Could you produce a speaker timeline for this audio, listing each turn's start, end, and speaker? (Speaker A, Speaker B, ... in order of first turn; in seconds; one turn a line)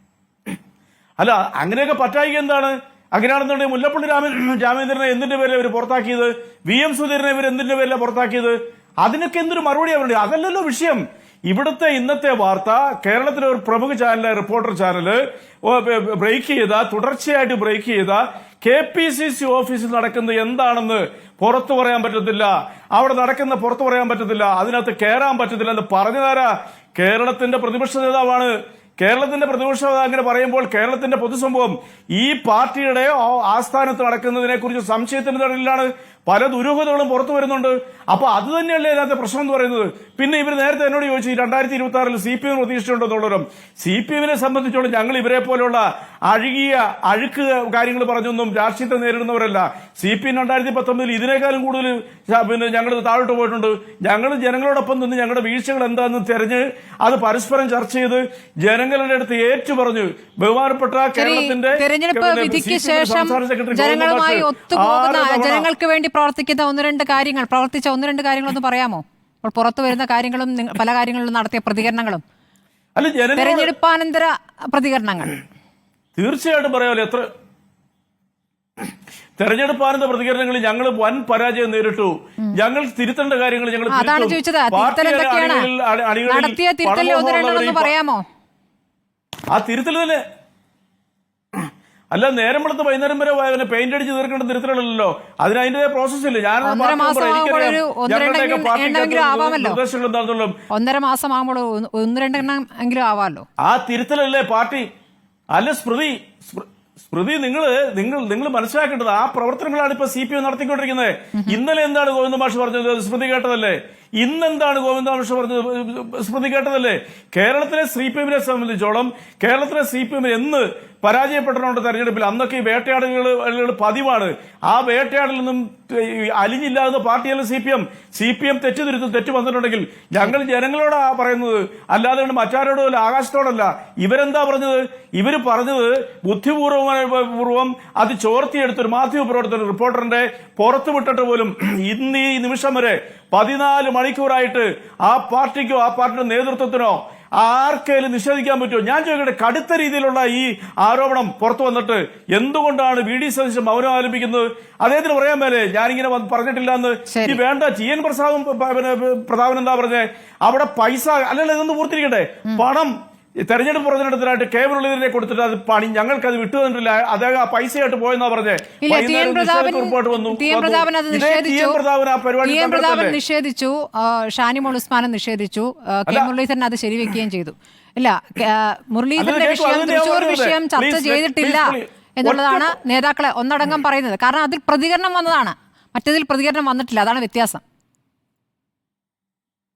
Speaker A: 1.2-65.7
Speaker B: 61.2-72.2
Speaker A: 73.0-73.7
Speaker B: 73.3-75.4
Speaker A: 76.2-77.3
Speaker A: 79.4-87.9
Speaker B: 83.9-85.7
Speaker B: 86.3-88.2
Speaker A: 89.5-90.2
Speaker A: 92.1-100.5
Speaker B: 96.6-99.8
Speaker B: 100.7-103.5
Speaker A: 103.6-104.9
Speaker A: 105.5-162.9
Speaker B: 111.3-111.6
Speaker B: 157.1-157.4
Speaker A: 163.5-173.2
Speaker B: 168.8-171.8
Speaker B: 172.4-187.6
Speaker A: 179.2-182.8